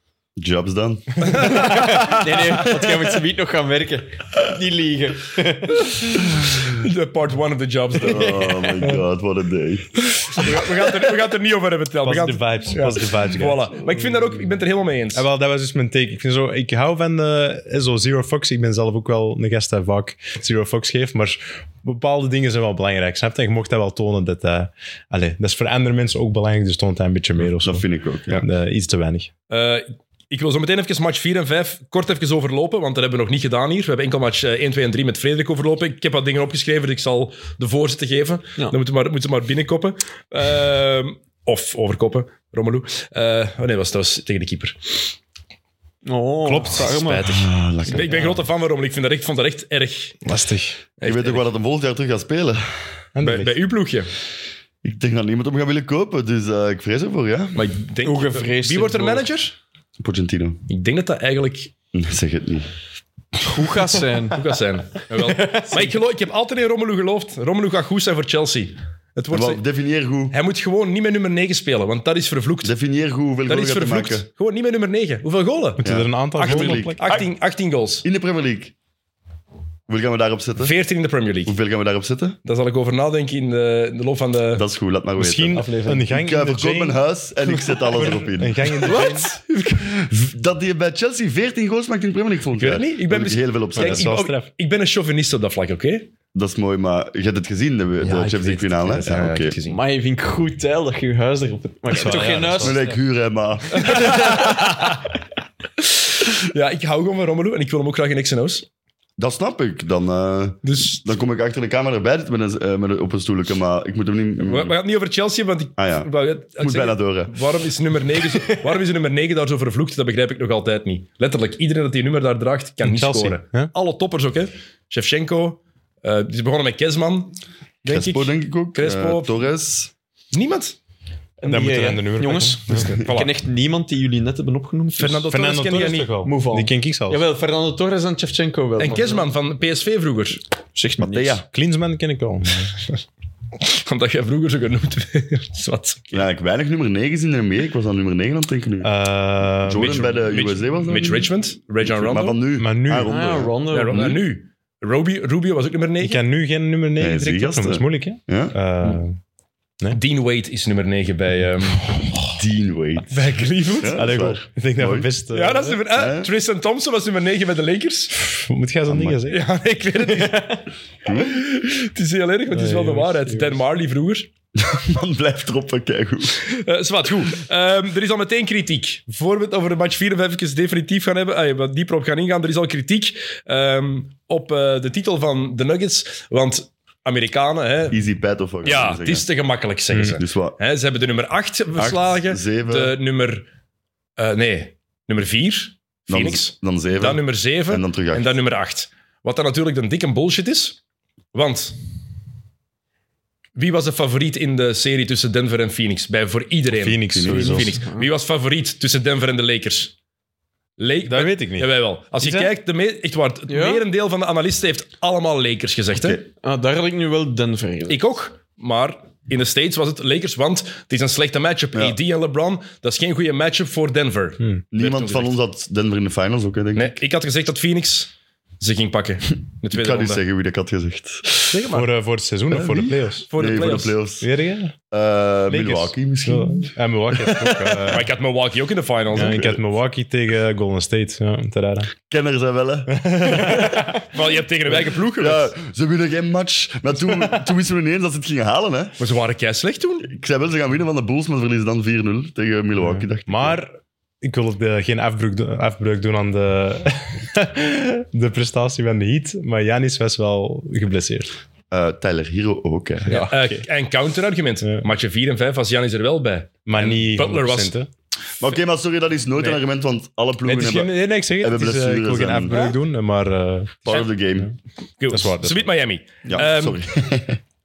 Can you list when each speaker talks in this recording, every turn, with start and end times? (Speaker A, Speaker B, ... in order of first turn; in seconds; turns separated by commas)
Speaker A: 0.4-1.7, Speaker B: 1.3-2.2, Speaker C: 1.4-6.2, Speaker B: 6.1-8.4, Speaker A: 8.0-10.1, Speaker C: 8.0-9.0, Speaker B: 10.3-15.2, Speaker D: 12.0-14.3, Speaker D: 15.1-29.3, Speaker A: 27.5-28.4, Speaker B: 29.5-45.1, Speaker C: 46.0-47.4, Speaker D: 46.5-47.0, Speaker B: 46.7-50.2, Speaker A: 47.2-48.4, Speaker D: 50.2-50.8, Speaker B: 51.0-51.5, Speaker A: 51.0-52.7, Speaker D: 53.1-53.5, Speaker B: 53.2-54.1, Speaker A: 54.8-57.6, Speaker B: 57.5-59.5, Speaker C: 58.0-59.2, Speaker A: 60.0-60.6, Speaker B: 60.7-61.7, Speaker A: 61.9-62.7, Speaker C: 63.4-64.4, Speaker B: 64.3-69.6, Speaker C: 65.2-65.9, Speaker A: 69.3-70.3, Speaker B: 70.3-72.7, Speaker A: 72.6-74.2, Speaker B: 73.5-75.8, Speaker D: 75.8-77.0, Speaker A: 75.8-77.3, Speaker B: 76.3-78.0, Speaker A: 78.0-78.7, Speaker A: 79.9-80.7, Speaker B: 80.6-81.5, Speaker A: 81.5-82.4, Speaker B: 82.4-84.6, Speaker A: 84.5-94.1, Speaker D: 85.2-87.0, Speaker C: 85.5-86.1, Speaker D: 87.9-89.3, Speaker B: 88.8-89.3, Speaker B: 92.5-96.1, Speaker D: 93.8-94.5, Speaker A: 96.3-99.5, Speaker B: 98.0-99.8, Speaker C: 99.7-102.9, Speaker D: 101.9-103.0, Speaker A: 102.6-104.6, Speaker B: 103.7-105.1, Speaker C: 103.9-104.5, Speaker B: 106.3-108.7, Speaker A: 109.2-114.7, Speaker B: 110.6-111.0, Speaker B: 114.4-129.5, Speaker A: 115.8-117.3, Speaker C: 118.3-118.7, Speaker D: 122.8-123.7, Speaker A: 127.8-129.9, Speaker B: 130.3-130.8, Speaker C: 131.4-135.3, Speaker D: 131.5-133.0, Speaker B: 133.0-133.3, Speaker B: 135.0-136.1, Speaker D: 135.3-137.2, Speaker C: 136.2-139.3, Speaker B: 138.8-140.4, Speaker C: 140.7-141.4, Speaker A: 141.0-141.4, Speaker D: 141.5-142.7, Speaker B: 143.6-146.2, Speaker A: 146.1-148.9, Speaker D: 148.8-150.0, Speaker A: 149.6-151.3, Speaker B: 149.7-152.4, Speaker A: 151.8-154.2, Speaker D: 152.6-153.1, Speaker C: 153.1-154.1, Speaker B: 153.7-156.2, Speaker D: 156.0-159.2, Speaker A: 157.0-158.5, Speaker B: 159.9-162.1, Speaker A: 162.3-165.1, Speaker B: 163.1-164.1, Speaker D: 163.9-165.8, Speaker B: 165.3-168.1, Speaker A: 165.9-166.3, Speaker D: 168.2-169.4, Speaker A: 168.9-169.2, Speaker B: 169.3-170.6, Speaker C: 170.1-170.6, Speaker A: 171.0-171.4, Speaker B: 171.1-174.3, Speaker D: 172.5-173.6, Speaker A: 174.6-176.5, Speaker B: 176.4-188.0, Speaker A: 187.9-189.2, Speaker B: 188.6-193.4, Speaker D: 189.9-190.2, Speaker A: 190.2-190.5, Speaker A: 191.8-192.9, Speaker B: 194.2-200.8, Speaker A: 196.1-198.3, Speaker B: 201.3-201.8, Speaker B: 203.6-209.9, Speaker D: 206.7-207.8, Speaker A: 207.1-207.7, Speaker C: 207.4-208.1, Speaker B: 210.8-216.2, Speaker D: 211.0-212.5, Speaker C: 213.5-213.8, Speaker A: 215.9-216.2, Speaker C: 216.4-218.0, Speaker B: 217.9-225.3, Speaker A: 224.7-227.0, Speaker B: 226.8-230.2, Speaker A: 229.7-231.6, Speaker B: 231.5-231.9, Speaker D: 231.7-233.2, Speaker A: 232.5-234.3, Speaker B: 233.3-233.9, Speaker D: 234.2-234.7, Speaker A: 234.9-237.8, Speaker D: 235.5-238.1, Speaker B: 237.9-239.6, Speaker D: 239.1-241.9, Speaker A: 242.1-244.0, Speaker D: 243.0-243.9, Speaker B: 243.4-245.5, Speaker A: 244.7-248.9, Speaker B: 249.0-250.1, Speaker A: 250.0-253.6, Speaker D: 252.8-261.3, Speaker A: 261.7-263.1, Speaker D: 263.1-263.6, Speaker B: 263.1-267.7, Speaker D: 266.6-267.9, Speaker A: 268.4-272.5, Speaker D: 270.4-274.5, Speaker A: 273.8-274.5, Speaker B: 275.0-276.8, Speaker D: 275.1-275.7, Speaker A: 276.3-277.4